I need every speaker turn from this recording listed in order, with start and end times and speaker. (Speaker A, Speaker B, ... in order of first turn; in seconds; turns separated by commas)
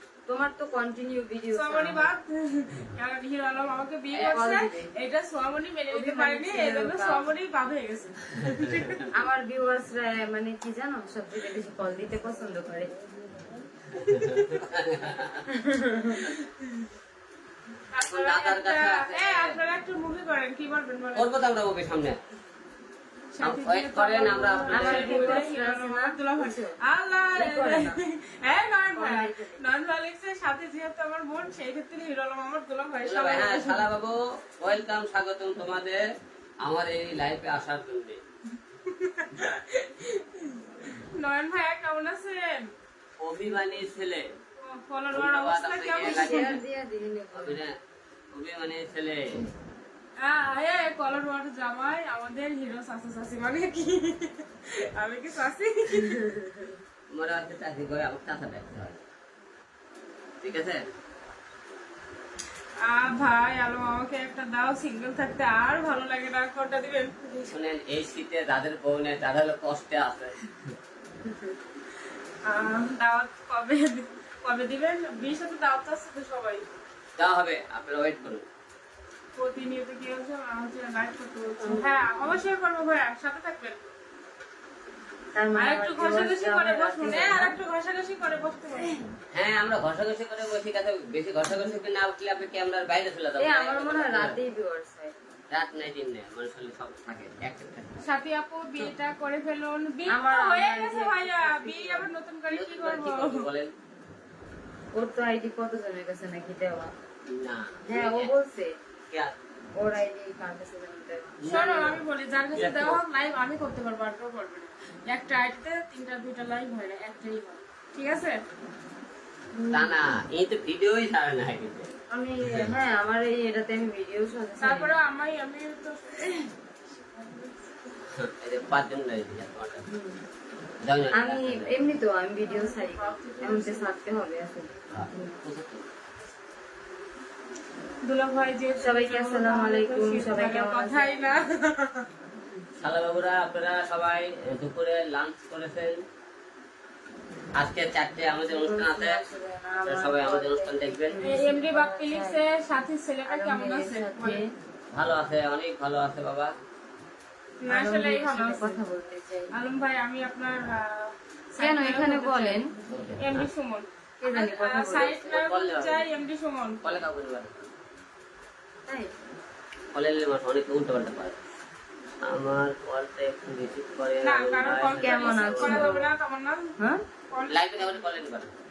Speaker A: 0.3-2.1, Speaker B: 1.5-9.1, Speaker A: 4.1-4.9, Speaker A: 5.9-7.3, Speaker C: 8.4-9.1, Speaker A: 9.1-12.9, Speaker C: 13.9-15.5, Speaker A: 15.5-16.2, Speaker B: 17.9-21.3, Speaker C: 18.0-19.6, Speaker C: 21.1-22.2, Speaker B: 23.3-33.9, Speaker C: 23.4-25.5, Speaker A: 24.7-26.8, Speaker A: 27.4-28.0, Speaker A: 28.9-29.6, Speaker C: 33.0-36.0, Speaker C: 36.6-38.2, Speaker B: 38.9-42.7, Speaker C: 43.2-44.3, Speaker B: 44.6-46.6, Speaker C: 45.1-46.6, Speaker A: 46.0-47.6, Speaker C: 47.3-47.8, Speaker C: 48.3-49.4, Speaker B: 50.2-56.2, Speaker A: 56.0-56.7, Speaker C: 57.1-59.0, Speaker C: 60.4-60.8, Speaker B: 62.8-67.5, Speaker C: 67.5-70.8, Speaker A: 71.3-71.5, Speaker B: 72.5-76.6, Speaker C: 77.2-78.5, Speaker B: 79.4-83.9, Speaker A: 81.6-82.3, Speaker A: 85.4-87.6, Speaker B: 85.6-89.1, Speaker C: 89.3-94.4, Speaker A: 93.4-95.1, Speaker C: 95.5-98.0, Speaker B: 98.0-103.5, Speaker A: 100.1-102.1, Speaker C: 102.5-103.7, Speaker A: 104.9-106.9, Speaker C: 107.3-108.3, Speaker A: 107.9-108.7, Speaker A: 109.8-111.4, Speaker C: 111.4-112.0, Speaker B: 111.5-118.4, Speaker C: 112.5-113.0, Speaker A: 119.5-120.1, Speaker C: 119.7-121.9, Speaker A: 122.1-124.9, Speaker C: 122.5-122.7, Speaker B: 124.6-127.5, Speaker C: 128.0-129.8, Speaker A: 129.9-130.2, Speaker C: 130.8-131.7, Speaker A: 131.1-135.4, Speaker B: 132.4-134.0, Speaker C: 134.9-135.9, Speaker B: 138.1-142.1, Speaker A: 138.8-141.3, Speaker C: 142.8-146.0, Speaker C: 147.6-149.2, Speaker A: 148.5-152.4, Speaker C: 149.9-151.2, Speaker B: 151.2-154.4, Speaker A: 153.3-154.5, Speaker C: 154.9-156.5, Speaker B: 157.6-158.8, Speaker A: 157.7-159.5, Speaker B: 159.5-166.8, Speaker A: 161.6-162.7, Speaker C: 162.9-163.5, Speaker A: 164.2-165.3, Speaker C: 165.3-166.1, Speaker C: 166.8-167.7, Speaker C: 169.9-171.4, Speaker C: 172.2-175.9, Speaker B: 174.2-176.7, Speaker A: 175.0-176.1, Speaker B: 177.3-178.0, Speaker C: 177.5-178.5